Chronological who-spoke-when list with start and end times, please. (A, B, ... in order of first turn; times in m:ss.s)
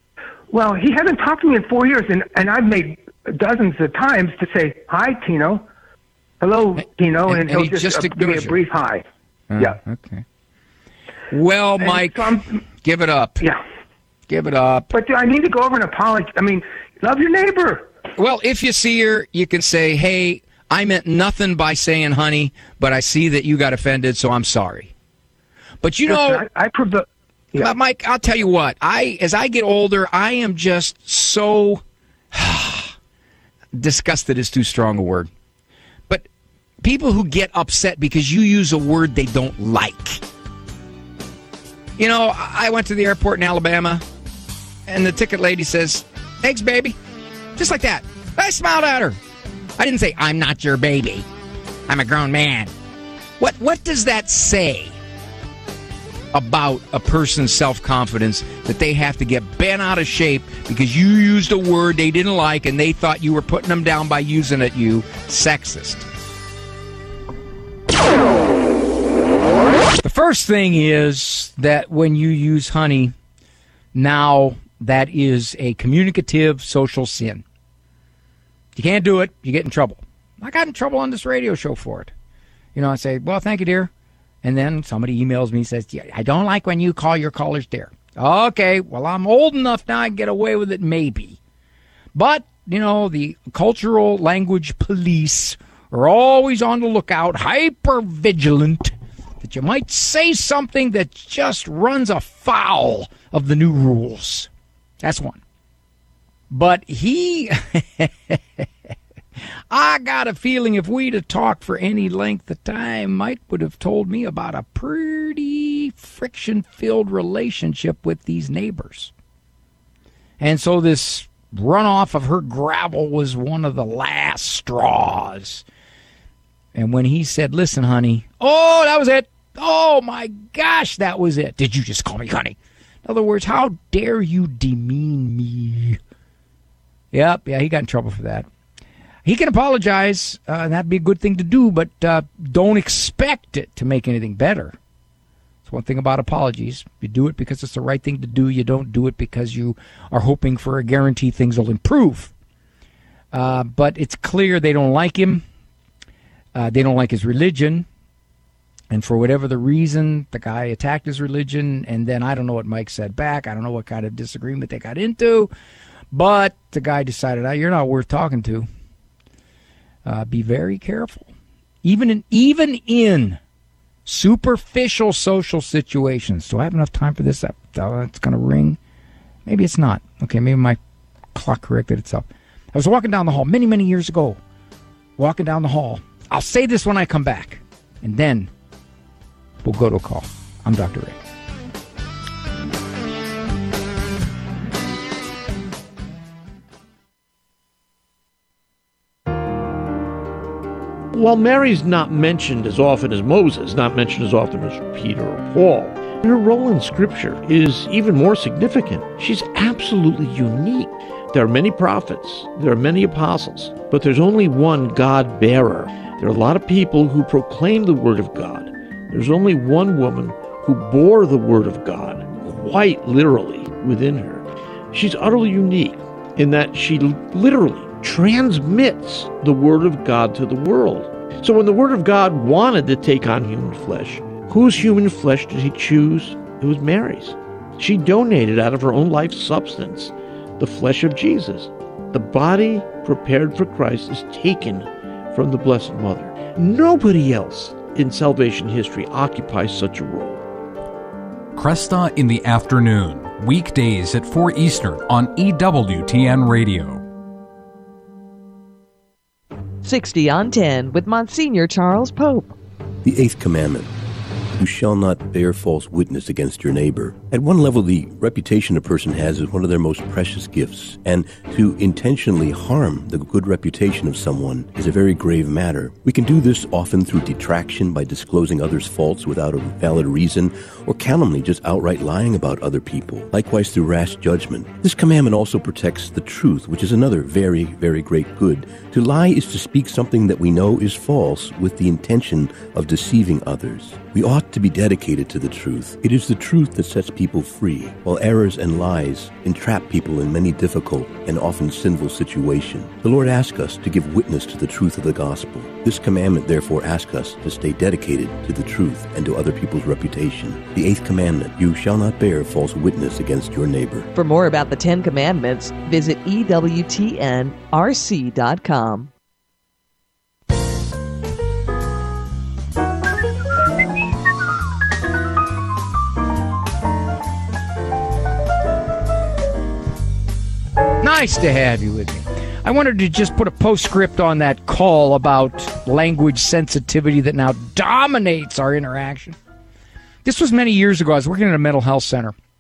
0:00.5-0:05.6 A
0:06.4-0:09.0 A
0:07.3-0:08.6 B
0:09.5-0:10.2 B
0:11.3-0:13.4 B
0:11.8-0:12.6 A
0:14.3-0:14.9 B
0:14.9-0:17.9 A
0:18.2-0:24.9 B
0:25.8-0:26.4 B
0:26.1-0:27.8 A
0:27.6-0:32.9 B
0:33.7-0:35.3 B
0:36.8-0:40.2 B
0:42.0-0:44.0 B
0:44.9-0:47.0 B
0:47.6-0:49.2 B
0:49.8-0:51.3 B
0:51.9-0:52.7 B
0:53.4-0:55.0 B
0:56.3-1:06.1 B
1:10.0-1:13.1 B
1:13.9-1:17.4 B
1:18.8-1:22.1 B
1:22.8-1:23.9 B
1:24.4-1:31.4 B
1:32.1-1:44.5 B
1:45.0-1:45.4 B
1:46.5-1:48.7 B
1:49.7-1:59.1 B
2:00.4-2:05.6 B
2:06.7-2:16.0 B
2:17.1-2:18.5 B
2:19.2-2:24.8 B
2:25.6-2:32.3 B
2:33.3-2:35.4 B
2:36.5-2:37.9 B
2:38.9-2:45.5 B
2:46.1-2:48.7 B
2:50.0-2:51.3 B
2:51.8-2:53.4 B
2:54.0-2:58.8 B
2:59.4-3:00.8 B
3:01.3-3:04.4 B
3:05.2-3:08.5 B
3:09.6-3:11.2 B
3:21.1-4:10.4 C
4:11.6-4:17.0 D
4:19.8-4:22.6 E
4:23.0-4:23.9 F
4:24.6-5:14.1 F
5:14.1-5:19.1 E
5:31.0-5:39.4 B
5:40.2-5:42.4 B